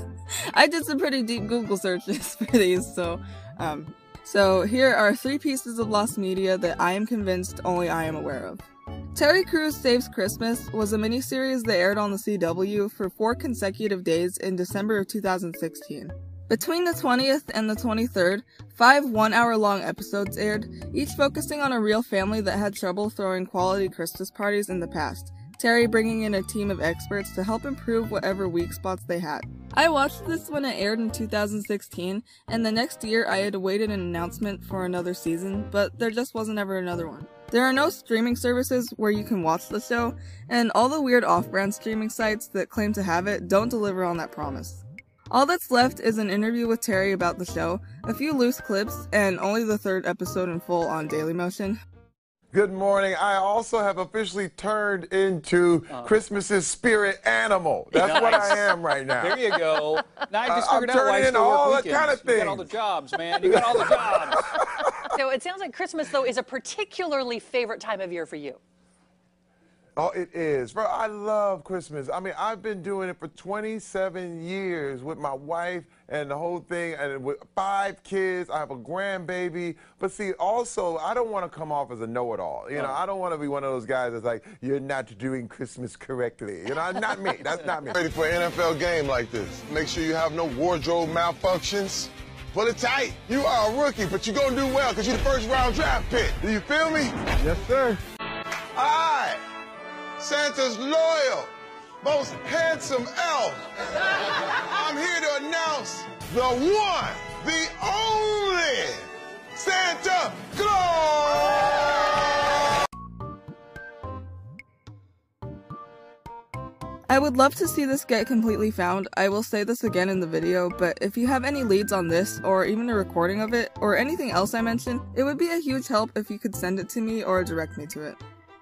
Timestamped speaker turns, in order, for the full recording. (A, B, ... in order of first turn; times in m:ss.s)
0:00.5-0:51.8 A
0:52.5-0:59.5 B
0:57.9-1:04.6 C
1:00.4-1:02.7 B
1:03.4-1:05.1 B
1:05.1-1:08.6 D
1:10.0-1:28.0 B
1:22.8-1:23.0 C
1:27.9-1:37.2 E
1:37.3-1:38.0 B
1:38.8-1:39.3 E
1:38.8-1:39.3 B
1:40.2-1:41.5 E
1:42.0-1:43.6 E
1:44.5-1:48.9 E
1:49.6-1:51.7 E
1:50.0-1:51.8 B
1:57.1-2:08.2 A